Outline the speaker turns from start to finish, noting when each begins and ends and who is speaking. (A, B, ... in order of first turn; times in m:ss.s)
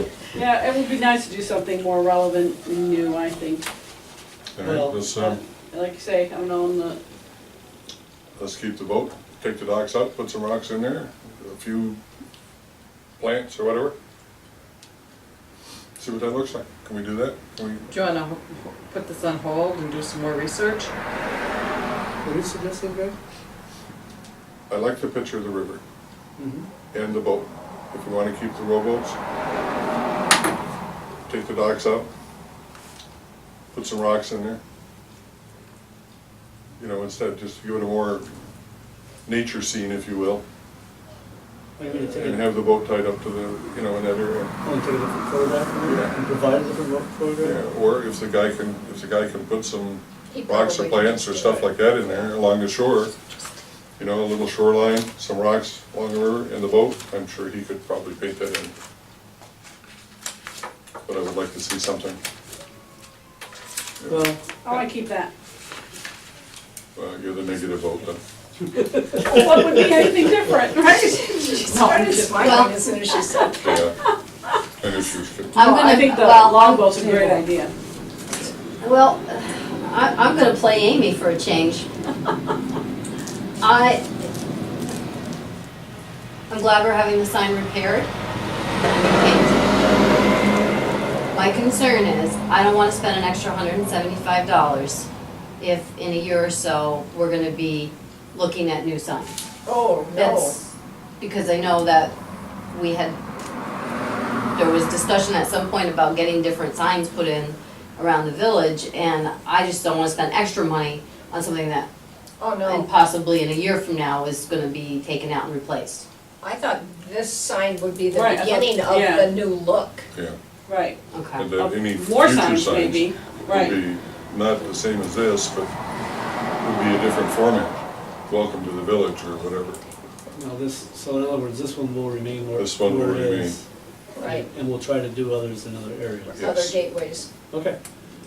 0:00.3-0:03.6 A
0:04.6-0:05.4 B
0:04.6-0:05.4 C
0:05.7-0:07.0 A
0:08.4-0:12.0 B
0:13.2-0:13.9 B
0:16.0-0:17.9 B
0:17.9-0:20.9 D
0:22.2-0:23.2 C
0:24.7-0:25.8 B
0:26.4-0:26.7 C
0:26.9-0:29.2 B
0:31.3-0:32.1 B
0:33.7-0:34.6 B
0:36.8-0:38.3 B
0:39.2-0:40.4 B
0:41.8-0:42.5 C
0:41.9-0:44.5 B
0:44.6-0:47.7 C
0:45.8-0:46.2 B
0:47.4-0:53.1 B
0:50.3-0:52.3 E
0:54.0-0:58.8 B
1:01.1-1:02.2 B
1:04.0-1:04.2 B
1:04.1-1:04.4 C
1:04.6-1:05.3 A
1:06.9-1:08.2 B
1:09.1-1:12.7 A
1:11.3-1:13.8 E
1:12.3-1:12.7 F
1:13.6-1:14.0 B
1:14.8-1:15.6 B
1:15.6-1:17.3 F
1:15.6-1:17.7 A
1:18.8-1:21.9 F
1:23.6-1:24.1 F
1:26.5-1:28.1 F
1:28.9-1:29.7 F
1:31.3-1:35.1 F
1:35.6-1:39.4 F
1:39.7-1:40.6 E
1:40.2-1:40.6 F
1:41.2-1:42.1 F
1:42.7-1:43.2 F
1:44.6-1:51.9 F
1:52.4-1:52.9 E
1:52.6-1:56.1 F
1:56.4-2:00.1 E
1:58.1-1:59.3 A
2:00.7-2:01.0 A
2:01.1-2:01.4 F
2:01.4-2:05.7 B
2:01.5-2:03.8 A
2:06.6-2:07.8 B
2:08.3-2:09.8 B
2:10.3-2:13.6 C
2:12.6-2:13.6 B
2:14.1-2:14.4 E
2:14.2-2:16.4 C
2:16.3-2:17.3 E
2:16.3-2:16.7 B
2:17.5-2:17.8 C